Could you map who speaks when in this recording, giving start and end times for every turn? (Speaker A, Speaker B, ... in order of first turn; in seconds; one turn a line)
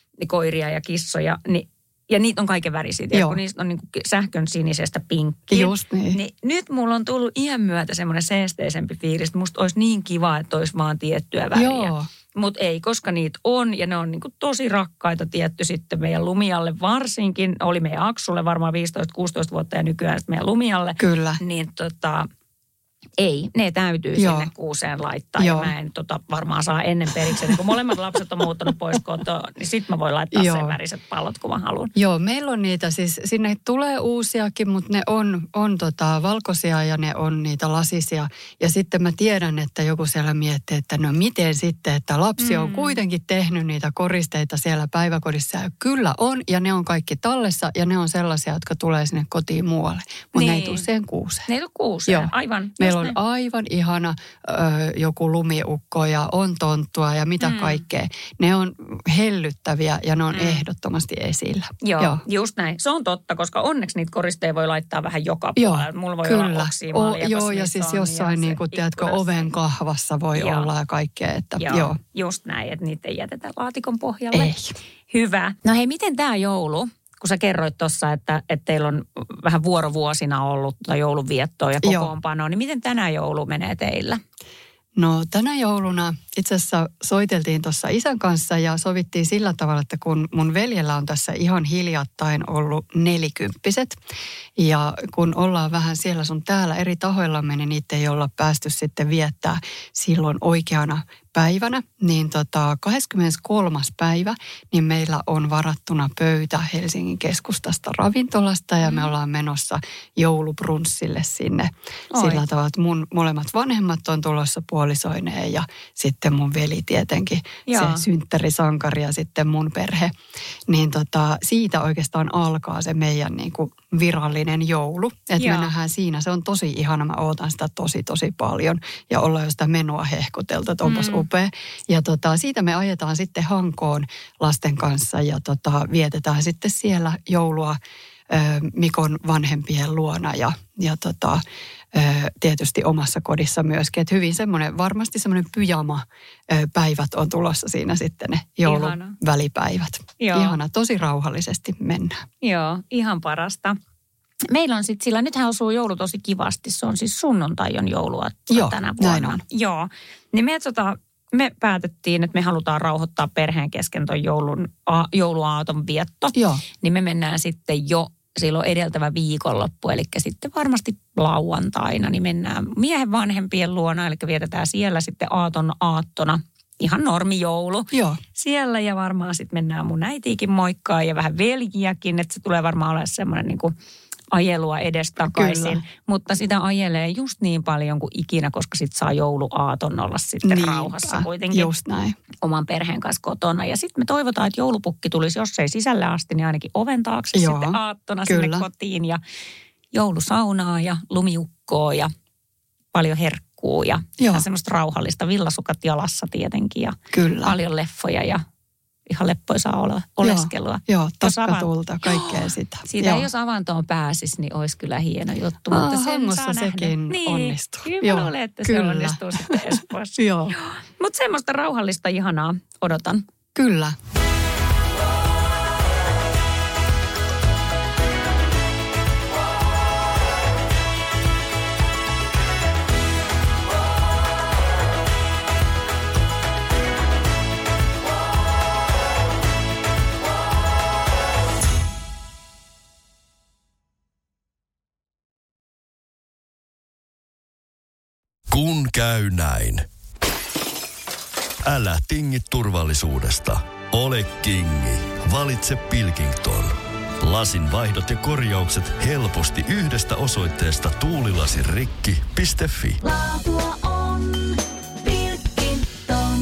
Speaker A: 0.2-22.3
Speaker B: 3.1-3.4
Speaker B: 5.5-6.2
Speaker B: 11.6-12.1
Speaker B: 21.0-21.4
Speaker A: 23.2-31.9
Speaker B: 24.2-24.5
Speaker B: 25.4-25.7
Speaker B: 30.3-30.8
Speaker B: 31.9-51.5
Speaker A: 42.4-43.0
Speaker A: 50.3-50.9
Speaker A: 51.5-53.2
Speaker B: 52.1-62.2
Speaker A: 57.4-57.8
Speaker A: 60.3-60.6
Speaker A: 61.8-69.5
Speaker B: 65.6-72.0
Speaker A: 70.3-70.7
Speaker A: 71.6-74.6
Speaker B: 74.3-74.7
Speaker A: 75.1-84.2
Speaker B: 81.8-82.1
Speaker B: 85.0-94.0
Speaker B: 94.6-120.2
Speaker A: 108.8-109.1
Speaker A: 112.1-112.4
Speaker A: 117.7-118.0
Speaker B: 120.7-137.8
Speaker A: 125.4-125.7
Speaker A: 130.8-131.3
Speaker B: 138.3-152.2
Speaker A: 148.7-149.2
Speaker A: 150.2-150.6
Speaker A: 152.4-153.8
Speaker A: 154.5-183.7
Speaker B: 158.5-159.4
Speaker B: 166.3-166.6
Speaker B: 177.9-178.2
Speaker A: 184.3-191.7
Speaker B: 185.2-185.8
Speaker B: 190.4-192.2
Speaker A: 192.4-199.2
Speaker B: 197.3-198.7
Speaker A: 199.9-202.1
Speaker A: 202.9-208.4
Speaker B: 204.2-204.5
Speaker B: 207.1-207.6
Speaker A: 209.1-223.2
Speaker B: 210.2-213.3
Speaker B: 215.7-220.6
Speaker B: 223.6-224.0
Speaker C: 248.5-249.9
Speaker C: 251.7-263.0